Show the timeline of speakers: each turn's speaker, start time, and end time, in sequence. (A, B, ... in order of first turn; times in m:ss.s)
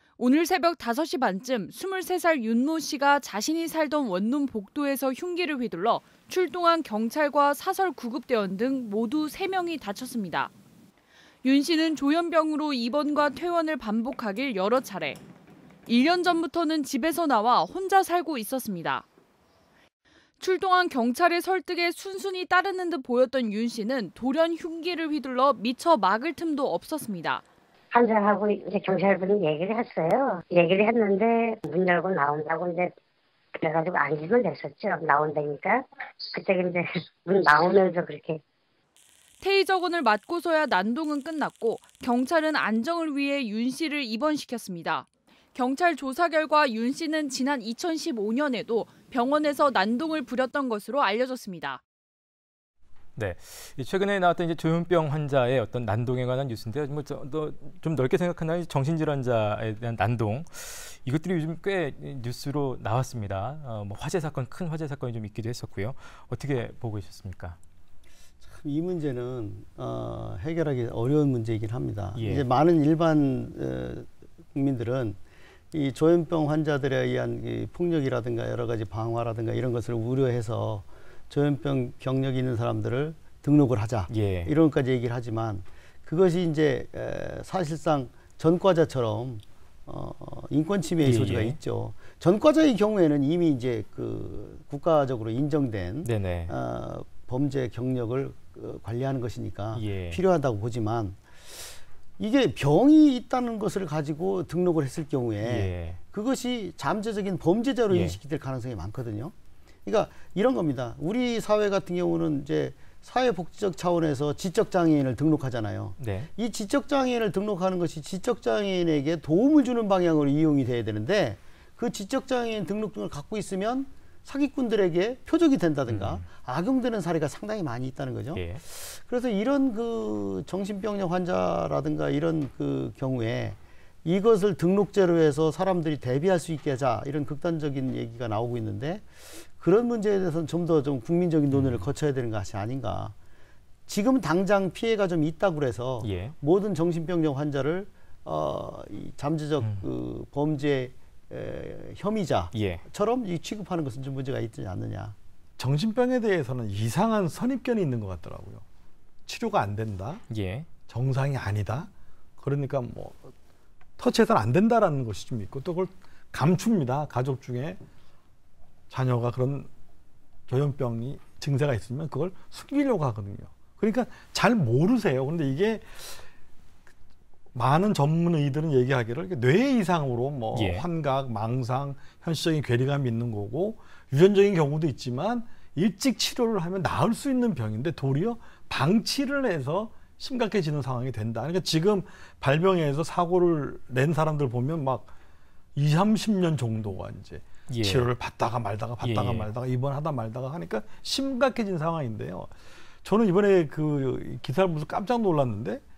0:00.2-0:10.5 A
0:11.4-0:15.2 A
0:15.9-0:19.0 A
0:20.4-0:27.4 A
0:27.9-0:32.9 B
0:33.6-0:38.4 B
0:39.4-0:51.8 A
0:53.2-1:07.6 C
1:08.4-1:15.2 D
1:12.2-1:12.5 C
1:15.7-1:41.6 D
1:24.1-1:24.5 C
1:31.0-1:31.6 C
1:36.0-1:36.6 C
1:39.7-1:40.2 C
1:42.2-1:49.3 D
1:45.4-1:46.0 C
1:47.9-1:48.2 C
1:49.9-2:23.2 D
1:56.0-1:56.3 C
2:05.9-2:06.2 C
2:08.3-2:08.6 C
2:21.5-2:21.9 C
2:23.9-2:35.2 D
2:26.0-2:26.4 C
2:32.5-2:32.8 C
2:35.6-2:38.6 E
2:39.3-2:40.2 E
2:40.3-2:40.7 C
2:40.9-2:43.3 E
2:44.0-2:47.8 E
2:48.9-2:49.7 E
2:50.5-2:56.2 E
2:57.5-3:15.1 E
3:00.5-3:00.8 C
3:15.8-3:22.5 E
3:17.7-3:18.1 C
3:19.0-3:19.5 C
3:23.0-3:25.8 E